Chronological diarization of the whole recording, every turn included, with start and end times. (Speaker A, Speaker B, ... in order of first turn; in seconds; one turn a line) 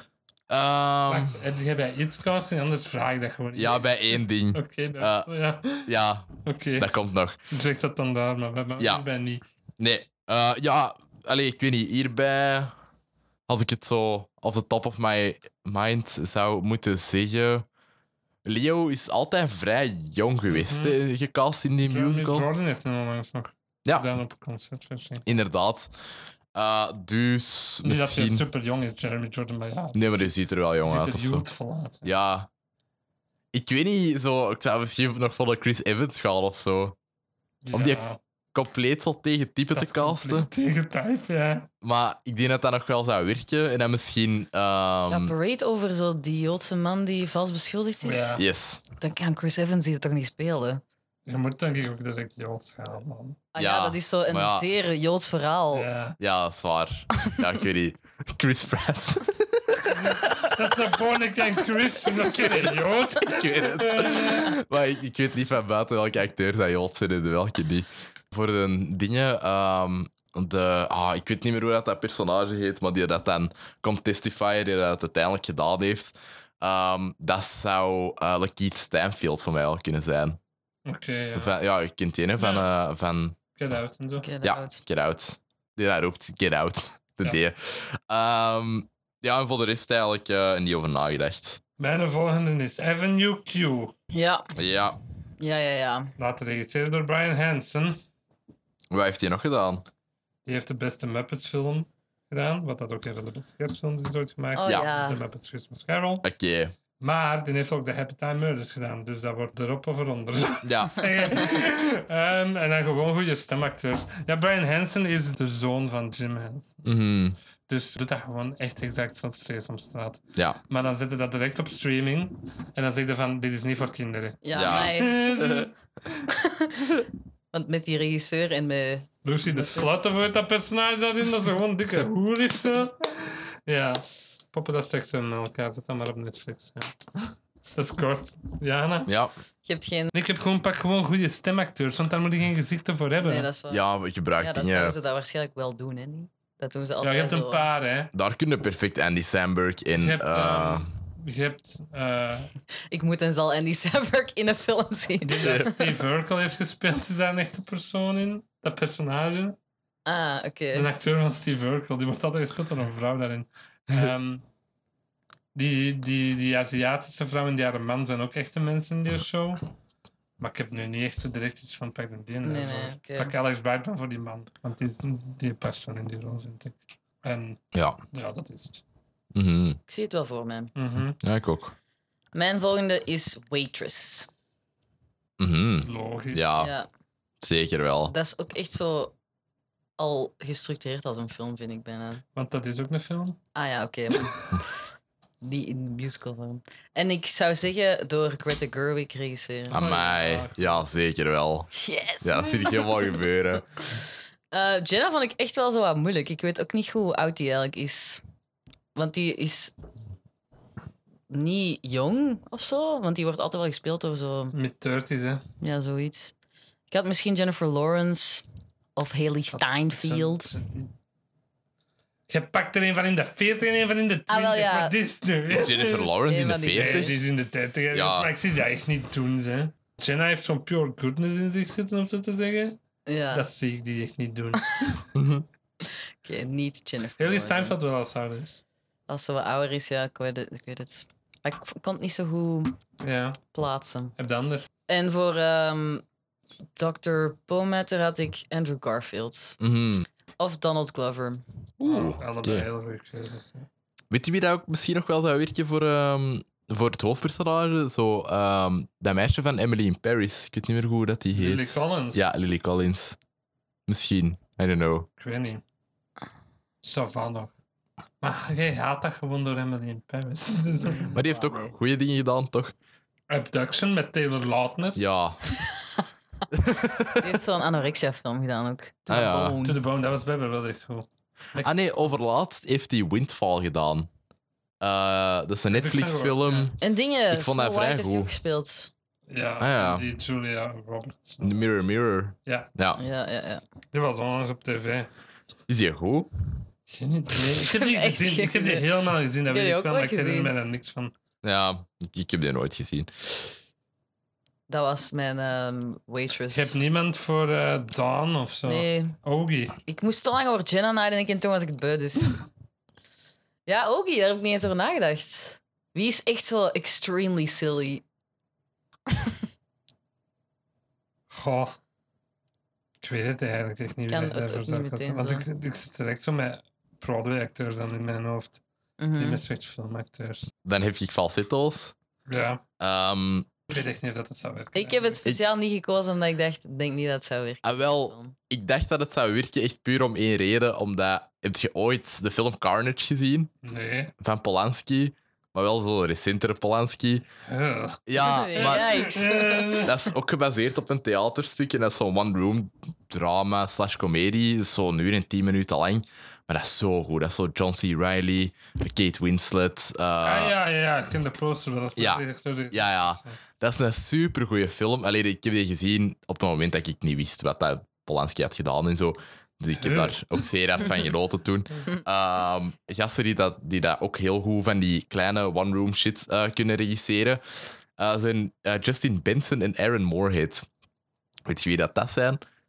Speaker A: 0.5-1.4
Speaker B: 1.1-5.9
Speaker A: 3.5-7.4
Speaker B: 6.4-6.9
Speaker B: 7.5-9.4
Speaker A: 8.8-9.0
Speaker A: 9.8-12.7
Speaker A: 13.5-17.7
Speaker A: 18.4-22.5
Speaker B: 20.5-21.0
Speaker B: 21.9-25.3
Speaker A: 25.2-25.9
Speaker A: 26.6-28.4
Speaker B: 27.8-30.3
Speaker A: 29.9-31.4
Speaker B: 30.8-32.1
Speaker A: 32.0-32.5
Speaker A: 33.5-37.0
Speaker B: 37.6-38.2
Speaker A: 37.7-38.0
Speaker A: 38.5-40.5
Speaker B: 39.7-41.7
Speaker A: 41.8-45.3
Speaker C: 45.1-48.4
Speaker B: 48.0-48.4
Speaker A: 48.4-48.8
Speaker C: 49.0-50.8
Speaker B: 51.3-53.5
Speaker C: 53.5-55.9
Speaker A: 53.6-54.7
Speaker B: 55.7-56.2
Speaker A: 56.2-60.7
Speaker B: 59.9-64.5
Speaker A: 63.2-80.4
Speaker B: 80.9-81.5
Speaker A: 81.3-83.4
Speaker B: 82.4-82.7
Speaker B: 83.6-84.3
Speaker C: 84.2-84.8
Speaker A: 84.4-91.6
Speaker B: 91.8-94.0
Speaker C: 94.1-94.5
Speaker A: 94.6-95.0
Speaker C: 95.4-96.1
Speaker B: 96.2-98.0
Speaker A: 98.9-99.9
Speaker B: 100.5-106.3
Speaker C: 104.5-105.2
Speaker A: 106.2-106.7
Speaker B: 107.0-116.8
Speaker A: 110.6-111.3
Speaker A: 116.8-117.4
Speaker B: 117.7-125.7
Speaker C: 124.4-125.2
Speaker A: 124.5-125.2
Speaker C: 126.3-126.9
Speaker C: 127.5-130.1
Speaker B: 129.2-136.9
Speaker B: 137.8-139.1
Speaker A: 139.1-139.3
Speaker C: 139.7-140.1
Speaker B: 140.1-143.5
Speaker C: 143.2-143.8
Speaker A: 143.7-145.0
Speaker C: 144.4-147.7
Speaker B: 147.0-148.1
Speaker A: 148.1-150.9
Speaker B: 149.9-152.5
Speaker C: 152.9-155.9
Speaker B: 155.2-159.6
Speaker A: 155.4-155.7
Speaker C: 160.1-160.9
Speaker B: 160.7-164.4
Speaker B: 165.6-169.7
Speaker B: 170.4-177.6
Speaker C: 172.4-173.3
Speaker A: 177.7-178.0
Speaker B: 178.1-178.8
Speaker A: 179.3-179.8
Speaker C: 179.9-180.7
Speaker B: 180.8-181.2
Speaker A: 181.2-181.8
Speaker C: 182.3-184.3
Speaker A: 185.4-186.7
Speaker B: 185.8-186.6
Speaker C: 186.6-186.9
Speaker A: 187.4-188.1
Speaker C: 188.1-189.2
Speaker C: 190.0-192.2
Speaker B: 192.3-193.4
Speaker C: 193.6-194.4
Speaker C: 195.4-199.8
Speaker A: 199.7-201.7
Speaker B: 199.7-200.9
Speaker C: 201.7-203.0
Speaker A: 202.2-203.7
Speaker C: 204.5-208.2
Speaker C: 208.9-209.7
Speaker C: 211.3-214.5
Speaker B: 214.5-215.4
Speaker C: 215.6-216.3
Speaker C: 216.9-218.4
Speaker C: 219.0-220.5
Speaker B: 219.5-220.9
Speaker B: 222.3-226.1
Speaker C: 224.3-224.9
Speaker A: 225.5-227.2
Speaker C: 226.3-227.2
Speaker B: 226.7-232.8
Speaker A: 227.9-228.3
Speaker C: 233.1-233.5
Speaker B: 233.3-235.0
Speaker A: 235.2-235.4
Speaker C: 235.8-237.8
Speaker B: 237.2-238.6
Speaker C: 239.1-242.8
Speaker B: 243.0-243.4
Speaker C: 243.5-244.2
Speaker B: 244.2-244.7
Speaker C: 244.9-246.0
Speaker C: 246.8-249.6
Speaker A: 249.6-250.1
Speaker C: 250.4-251.4
Speaker A: 251.8-252.7
Speaker B: 251.8-253.7
Speaker A: 254.1-263.2
Speaker B: 261.3-262.3
Speaker A: 263.9-265.1
Speaker B: 265.2-265.6
Speaker B: 266.8-267.5
Speaker B: 268.2-271.1
Speaker A: 271.1-272.7
Speaker C: 271.2-271.6
Speaker B: 273.3-275.0
Speaker A: 275.0-275.5
Speaker A: 276.5-277.4
Speaker C: 277.2-279.8
Speaker A: 279.1-279.6
Speaker B: 279.5-281.8
Speaker A: 281.6-284.1
Speaker A: 284.8-286.8
Speaker B: 285.7-286.7
Speaker C: 286.8-288.9
Speaker A: 287.3-288.3
Speaker B: 289.3-291.7
Speaker A: 289.6-290.1
Speaker A: 291.4-293.0
Speaker C: 293.0-293.6
Speaker B: 293.9-295.1
Speaker A: 295.7-296.3
Speaker B: 296.9-301.1
Speaker C: 297.7-298.9
Speaker C: 299.5-300.5
Speaker A: 301.4-303.5
Speaker C: 304.7-306.8
Speaker B: 306.5-309.8
Speaker C: 308.7-309.2
Speaker C: 309.9-312.4
Speaker C: 313.7-318.0
Speaker B: 321.3-321.8
Speaker B: 323.0-328.6
Speaker C: 324.1-325.4
Speaker C: 329.0-329.4
Speaker B: 329.2-330.5
Speaker A: 330.6-331.9
Speaker B: 332.3-332.6
Speaker A: 332.8-333.6
Speaker B: 333.7-335.2
Speaker C: 334.8-338.4
Speaker A: 337.6-343.5
Speaker B: 343.6-344.1
Speaker A: 344.2-347.3
Speaker B: 347.5-348.0
Speaker A: 348.1-349.1
Speaker C: 348.2-349.8
Speaker B: 348.6-350.0
Speaker A: 349.8-360.6
Speaker B: 360.2-363.4
Speaker A: 362.0-377.4
Speaker B: 369.8-370.4
Speaker A: 378.0-380.7
Speaker A: 381.5-382.4